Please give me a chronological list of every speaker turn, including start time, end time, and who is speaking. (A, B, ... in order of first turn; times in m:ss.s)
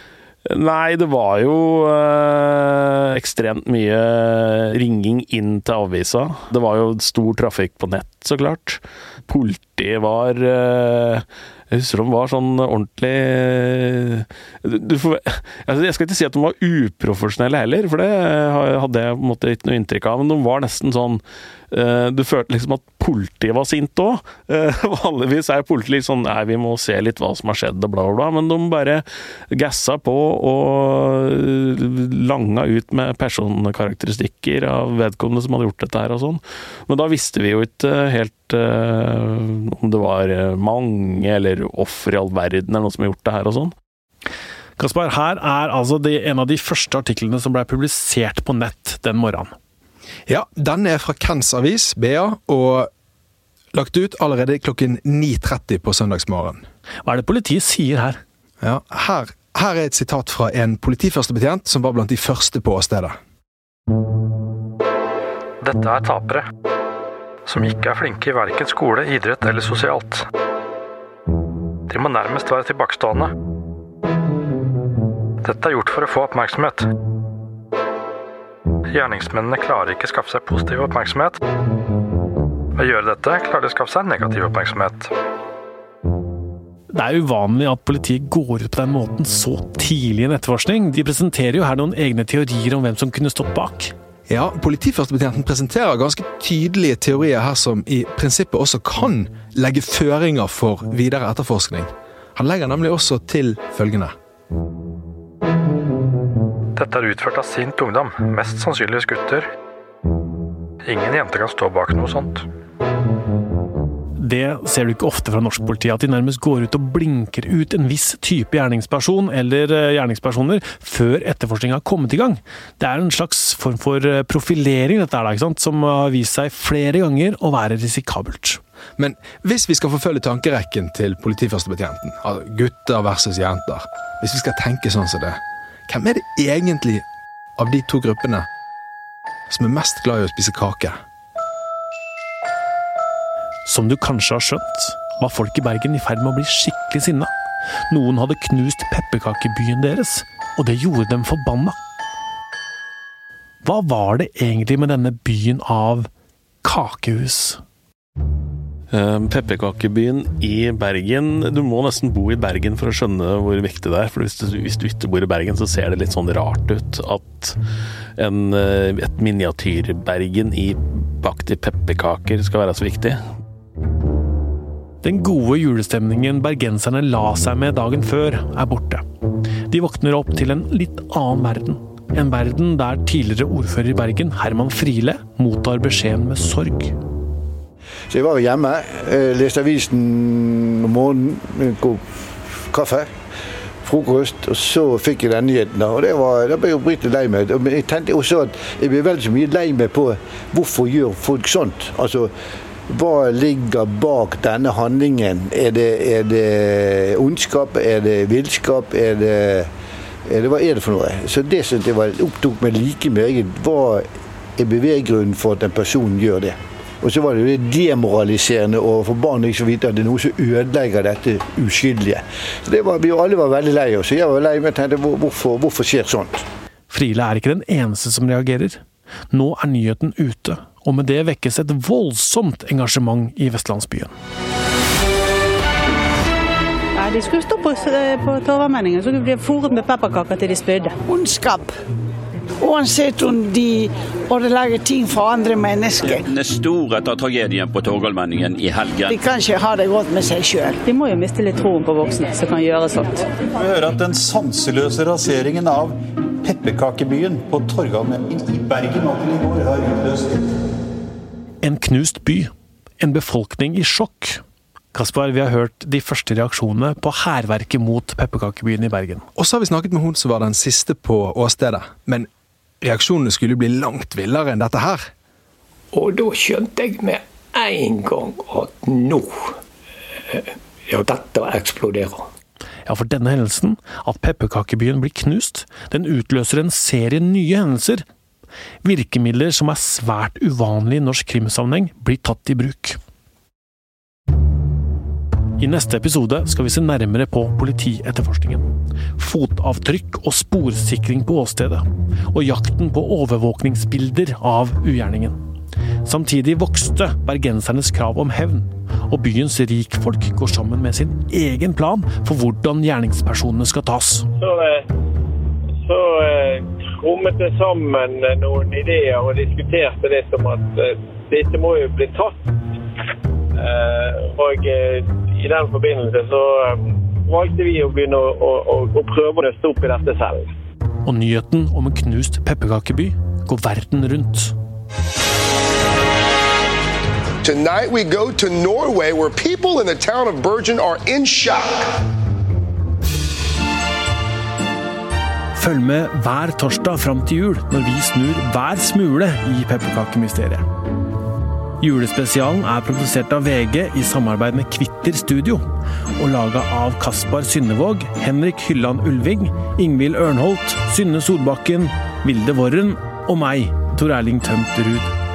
0:00.5-0:43.7 A
0:44.8-0:49.5 B
0:50.3-0:52.9 C
0:53.7-0:56.6 C
0:57.0-0:58.2 B
0:58.6-1:03.2 C
1:05.6-1:06.4 D
1:07.5-1:10.3 D
1:11.9-1:13.3 D
1:15.4-1:16.9 D
1:18.9-1:21.4 D
1:22.8-1:25.1 D
1:26.9-1:33.9 B
1:34.3-1:44.1 C
1:46.8-1:49.5 D
1:50.8-1:52.5 D
1:54.2-2:08.6 B
2:09.0-2:17.0 C
2:17.6-2:18.5 C
2:19.5-2:21.0 C
2:23.7-2:27.3 B
2:27.9-2:31.8 B
2:33.6-2:36.1 B
2:36.6-2:37.6 B
2:38.9-2:47.6 A
2:48.2-2:53.2 A
2:55.0-2:59.0 B
2:59.7-3:07.0 B
3:08.1-3:12.0 E
3:12.7-3:13.1 E
3:13.8-3:22.3 E
3:22.9-3:29.7 E
3:30.3-3:34.1 E
3:34.6-3:46.4 E
3:46.9-3:54.1 B
3:57.0-4:01.0 F
4:01.1-4:01.7 G
4:02.6-4:06.2 G
4:06.1-4:09.2 H
4:09.1-4:10.8 G
4:10.8-4:13.3 F
4:13.5-4:20.5 I
4:21.6-4:22.5 B
4:23.0-4:24.4 B
4:24.9-4:29.3 B
4:29.4-4:32.3 C
4:32.8-4:35.1 C
4:35.9-4:39.6 J
4:40.3-4:42.3 J
4:42.9-4:48.0 B
4:48.8-4:53.0 B
4:55.6-4:58.6 B
4:59.2-5:05.4 B
5:06.0-5:14.3 B
5:14.4-5:14.8 K
5:15.8-5:22.4 K
5:23.6-5:30.5 K
5:31.0-5:34.6 B
5:37.4-5:41.9 L
5:45.6-5:50.6 B
5:51.8-5:55.7 B
5:56.2-6:05.1 B